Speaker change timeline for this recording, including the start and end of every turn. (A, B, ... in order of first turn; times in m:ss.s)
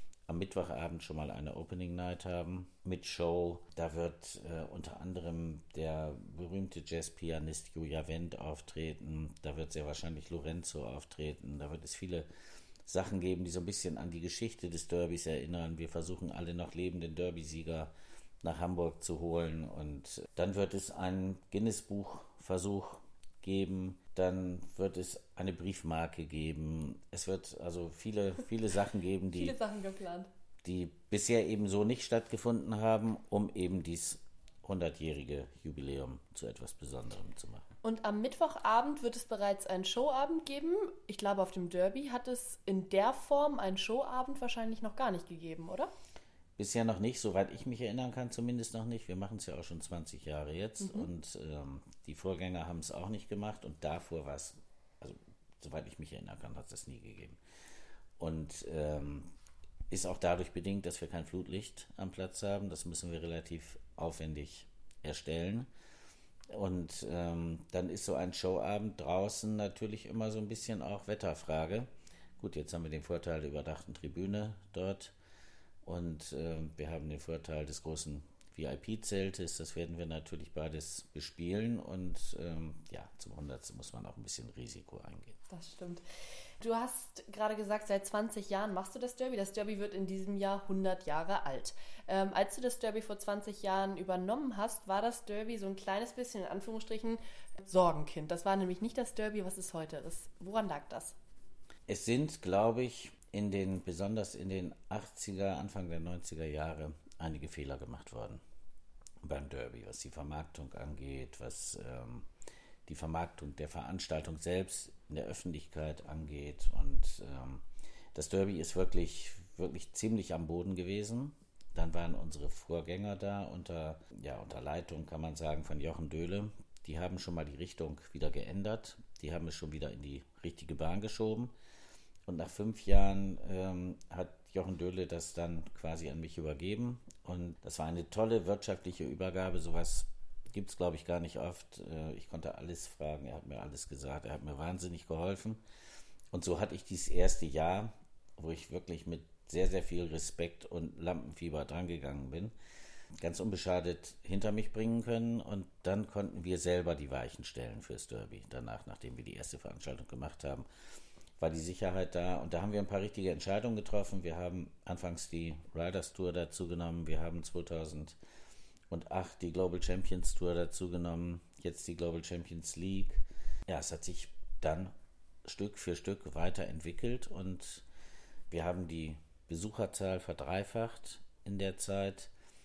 0:00.3-0:12.3 A
0:12.8-0:29.6 A
0:29.3-0:30.3 B
0:30.6-0:37.7 A
0:37.8-0:45.9 B
0:46.6-0:57.4 A
0:50.8-0:51.1 B
0:58.2-0:59.3 A
0:59.9-1:05.7 A
1:06.5-1:15.2 A
1:15.8-1:25.4 A
1:25.5-1:26.0 B
1:26.6-1:41.2 B
1:41.9-1:48.4 A
1:49.2-1:52.3 A
1:52.9-2:11.5 A
2:12.2-2:25.6 A
2:26.3-2:32.5 A
2:33.2-2:40.7 A
2:41.4-2:48.2 A
2:48.9-2:54.9 A
2:55.4-2:57.9 A
2:58.5-3:02.3 A